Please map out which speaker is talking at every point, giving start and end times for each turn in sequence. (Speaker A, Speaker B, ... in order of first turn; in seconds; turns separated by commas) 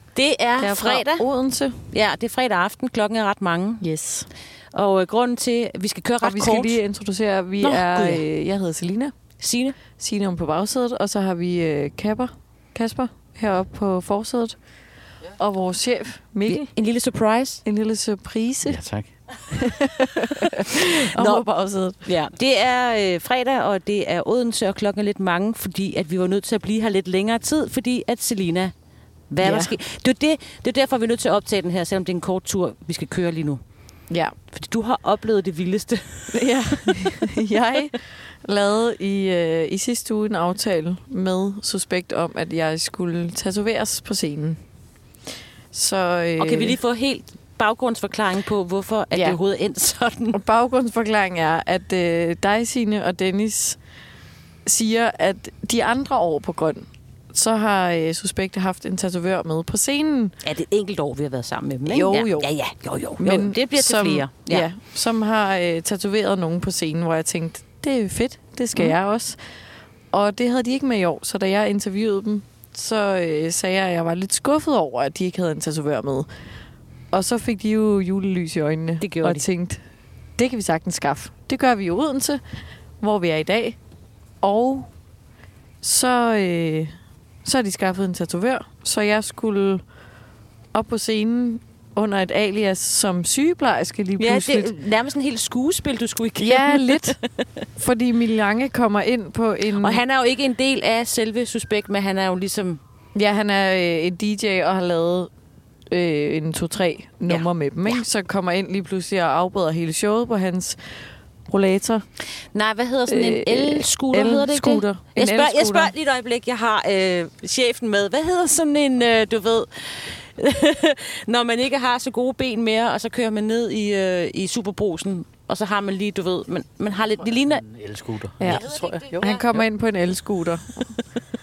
Speaker A: 0.1-1.2, Speaker B: 0.6-1.8, Speaker A: 1.9-3.8, Speaker B: 3.8-4.3, Speaker A: 4.7-6.8, Speaker B: 6.2-9.1, Speaker A: 7.6-8.3, Speaker A: 9.4-9.8, Speaker B: 10.0-14.6, Speaker B: 15.4-16.7, Speaker A: 16.5-17.6, Speaker B: 17.6-18.8, Speaker C: 18.6-19.1, Speaker B: 19.5-22.0, Speaker A: 21.1-21.4, Speaker A: 22.0-28.7, Speaker A: 29.3-33.6, Speaker B: 29.4-29.7, Speaker A: 34.5-37.3, Speaker B: 36.3-44.6, Speaker B: 45.7-46.8, Speaker A: 46.4-50.4, Speaker B: 49.1-49.4, Speaker B: 50.3-53.8, Speaker B: 54.6-60.3, Speaker A: 60.4-64.7, Speaker B: 61.9-62.5, Speaker B: 63.2-69.4, Speaker B: 70.1-76.3, Speaker B: 77.1-79.8, Speaker A: 79.0-79.4, Speaker B: 80.4-82.4, Speaker B: 83.0-83.8, Speaker B: 84.4-84.9, Speaker B: 85.8-86.9, Speaker B: 87.4-89.8, Speaker B: 90.7-94.7, Speaker A: 94.2-97.4, Speaker B: 96.4-97.2, Speaker B: 97.8-100.0, Speaker A: 99.7-102.8, Speaker B: 103.1-105.3, Speaker B: 105.9-110.8, Speaker A: 107.3-108.0, Speaker B: 111.5-112.0, Speaker A: 112.5-127.6, Speaker B: 113.1-115.9, Speaker C: 127.3-129.6, Speaker B: 128.4-130.9, Speaker A: 128.4-129.4